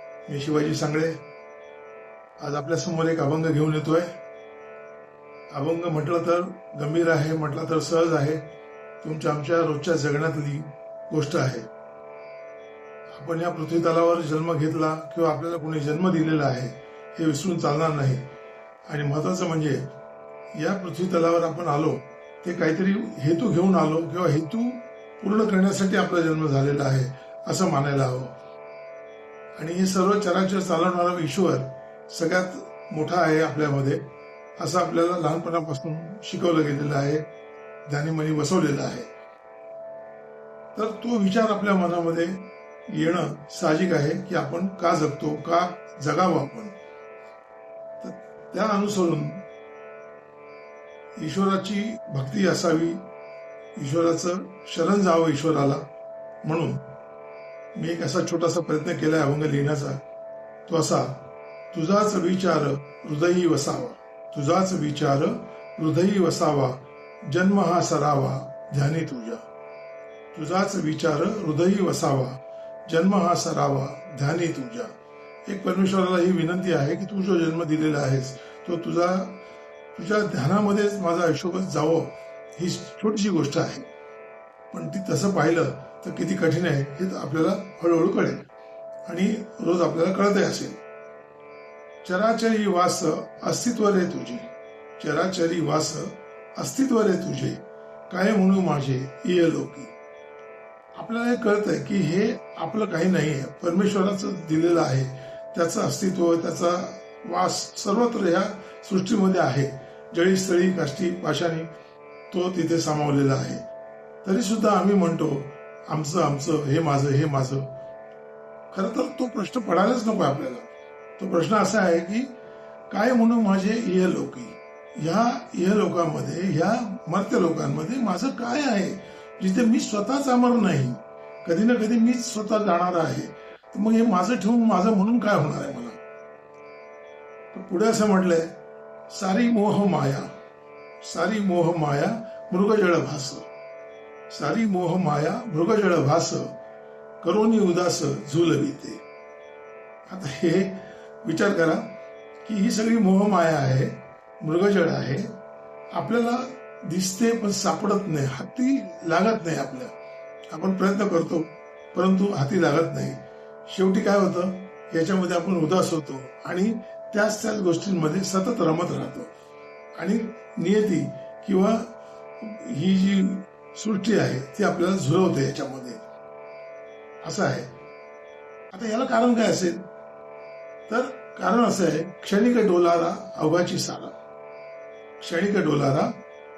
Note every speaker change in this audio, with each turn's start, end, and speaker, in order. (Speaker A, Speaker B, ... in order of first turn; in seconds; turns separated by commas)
Speaker A: 0.3-1.2, Speaker A: 2.4-4.1, Speaker A: 5.5-8.4, Speaker A: 9.0-11.7, Speaker A: 13.1-18.3, Speaker A: 18.9-19.9, Speaker A: 20.6-28.3, Speaker A: 29.6-37.3, Speaker A: 37.9-39.1, Speaker A: 40.8-46.8, Speaker A: 48.0-49.5, Speaker A: 51.2-53.1, Speaker A: 53.8-55.9, Speaker A: 56.4-56.9, Speaker A: 57.8-60.0, Speaker A: 60.7-69.4, Speaker A: 70.3-74.9, Speaker A: 75.5-79.4, Speaker A: 80.0-83.9, Speaker A: 84.7-88.5, Speaker A: 89.1-90.8, Speaker A: 92.0-99.9, Speaker A: 101.0-111.7, Speaker A: 112.3-113.6, Speaker A: 114.2-117.7, Speaker A: 118.7-122.3, Speaker A: 122.9-136.0, Speaker A: 137.5-138.6, Speaker A: 139.1-140.3, Speaker A: 141.0-143.5, Speaker A: 144.3-146.6, Speaker A: 147.2-149.0, Speaker A: 150.1-151.9, Speaker A: 152.4-155.4, Speaker A: 155.9-159.9, Speaker A: 160.5-169.3, Speaker A: 170.0-176.0, Speaker A: 177.2-177.7, Speaker A: 178.7-179.9, Speaker A: 180.9-184.2, Speaker A: 185.2-186.1